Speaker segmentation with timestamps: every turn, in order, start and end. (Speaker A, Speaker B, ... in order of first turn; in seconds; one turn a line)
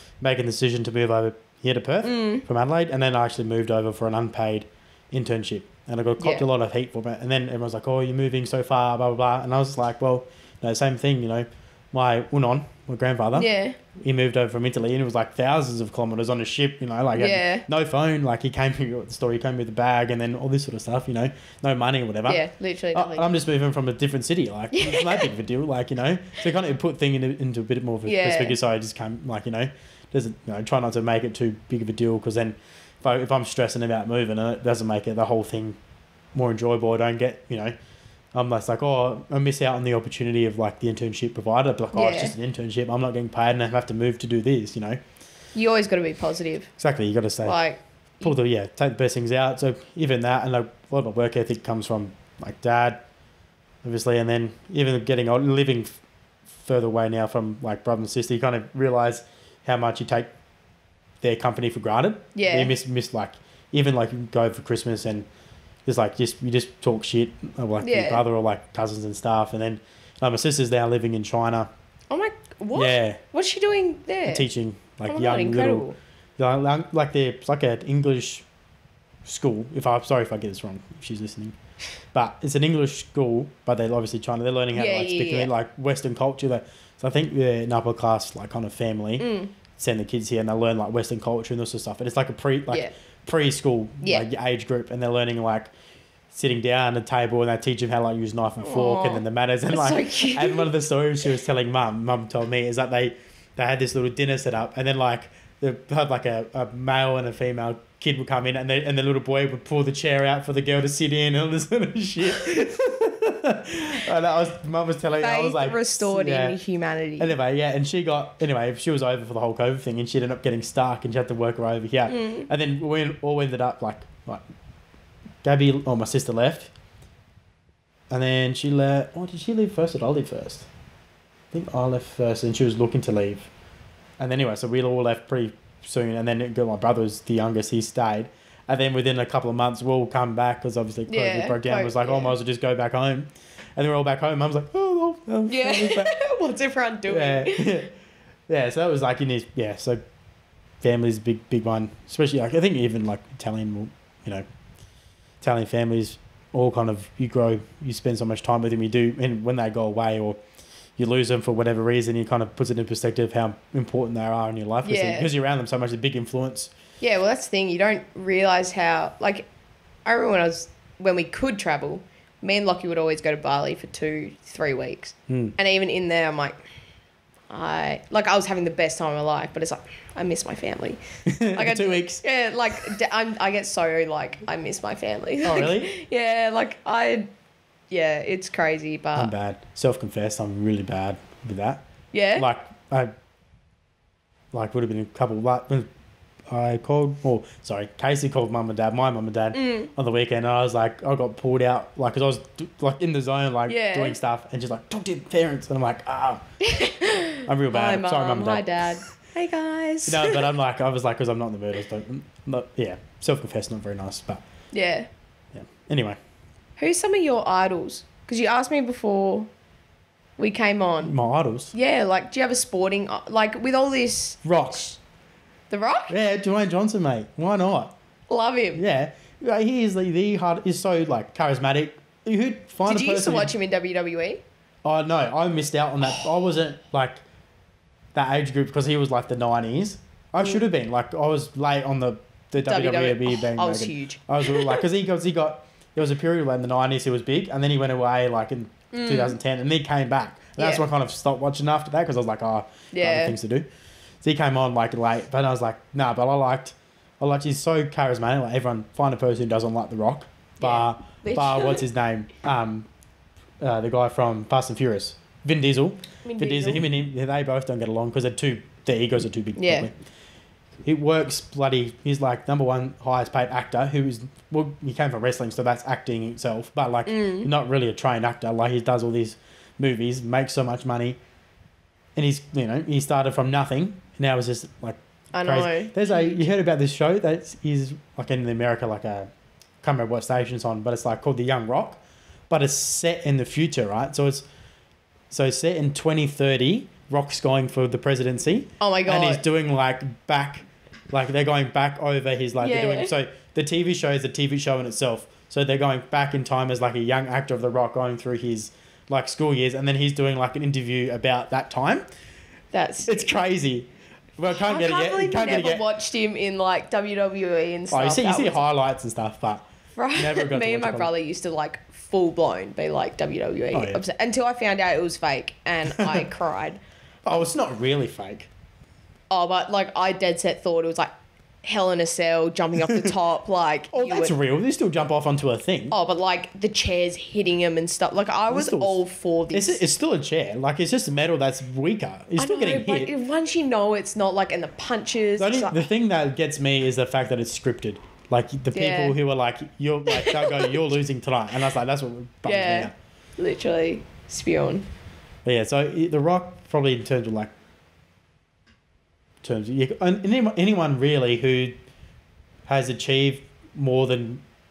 Speaker A: 0.2-35.8
Speaker B: 2.0-2.4
Speaker B: 6.2-6.4
Speaker B: 13.3-13.8
Speaker B: 17.1-17.7
Speaker B: 22.3-23.3
Speaker B: 24.7-25.3
Speaker B: 28.0-28.6
Speaker A: 36.3-37.7
Speaker A: 38.3-45.0
Speaker B: 41.9-42.3
Speaker B: 45.5-46.7
Speaker A: 46.8-47.6
Speaker B: 47.4-48.3
Speaker A: 48.2-53.0
Speaker A: 53.8-56.0
Speaker A: 56.5-60.3
Speaker A: 61.2-65.2
Speaker B: 62.4-62.7
Speaker A: 65.8-71.7
Speaker B: 67.8-68.2
Speaker B: 72.1-74.4
Speaker A: 72.8-73.2
Speaker A: 74.3-75.9
Speaker B: 75.1-76.0
Speaker A: 76.4-78.5
Speaker A: 79.2-81.6
Speaker A: 82.1-95.7
Speaker B: 84.7-85.5
Speaker B: 89.2-89.5
Speaker B: 94.0-94.2
Speaker A: 96.3-116.6
Speaker B: 98.6-100.7
Speaker B: 115.2-117.3
Speaker A: 117.2-124.4
Speaker B: 122.1-122.5
Speaker A: 125.4-126.7
Speaker A: 128.1-130.7
Speaker A: 131.5-133.5
Speaker A: 134.2-146.1
Speaker B: 141.1-142.3
Speaker B: 145.5-147.8
Speaker A: 147.1-147.9
Speaker A: 148.5-150.0
Speaker A: 150.8-154.4
Speaker A: 155.4-160.4
Speaker A: 161.0-166.7
Speaker B: 164.8-165.3
Speaker B: 167.0-169.5
Speaker B: 170.1-176.6
Speaker A: 175.3-175.6
Speaker B: 177.5-187.3
Speaker A: 181.3-182.2
Speaker A: 185.4-185.9
Speaker B: 187.9-189.3
Speaker A: 189.1-191.8
Speaker B: 192.1-192.4
Speaker A: 192.3-193.1
Speaker A: 194.5-195.9
Speaker A: 196.5-206.4
Speaker B: 199.5-199.9
Speaker B: 203.7-204.2
Speaker B: 206.6-210.4
Speaker A: 207.4-208.8
Speaker A: 210.1-214.4
Speaker B: 214.7-215.1
Speaker A: 215.5-216.2
Speaker B: 216.8-219.5
Speaker B: 220.4-221.1
Speaker A: 221.0-221.7
Speaker B: 221.7-225.0
Speaker A: 224.4-224.9
Speaker B: 225.7-226.1
Speaker A: 226.1-227.9
Speaker B: 228.3-228.8
Speaker A: 228.8-233.5
Speaker B: 232.8-234.4
Speaker A: 234.8-237.2
Speaker A: 238.1-253.7
Speaker B: 242.6-244.8
Speaker B: 248.9-249.4
Speaker B: 250.6-250.8
Speaker B: 252.9-253.3
Speaker A: 254.2-262.9
Speaker B: 260.6-261.8
Speaker A: 263.6-269.9
Speaker B: 266.2-266.9
Speaker B: 269.6-269.9
Speaker A: 270.8-281.2
Speaker B: 277.1-277.5
Speaker A: 282.1-289.3
Speaker B: 285.3-286.4
Speaker A: 289.8-294.4
Speaker A: 295.3-312.0
Speaker B: 298.8-299.4
Speaker B: 302.6-303.1
Speaker B: 312.7-313.3
Speaker A: 313.1-315.8
Speaker B: 314.5-318.6
Speaker A: 317.9-321.1
Speaker B: 320.0-326.8
Speaker A: 323.7-324.0
Speaker A: 326.0-326.2
Speaker A: 327.2-328.5
Speaker B: 329.3-331.1
Speaker B: 331.6-334.3
Speaker A: 332.9-333.1
Speaker A: 333.9-336.0
Speaker B: 335.9-339.8
Speaker A: 338.5-343.1
Speaker B: 342.4-345.9
Speaker A: 345.4-352.9
Speaker B: 348.7-349.2
Speaker B: 350.1-350.7
Speaker B: 352.4-354.9
Speaker A: 355.4-357.5
Speaker A: 359.4-361.8
Speaker A: 362.7-364.4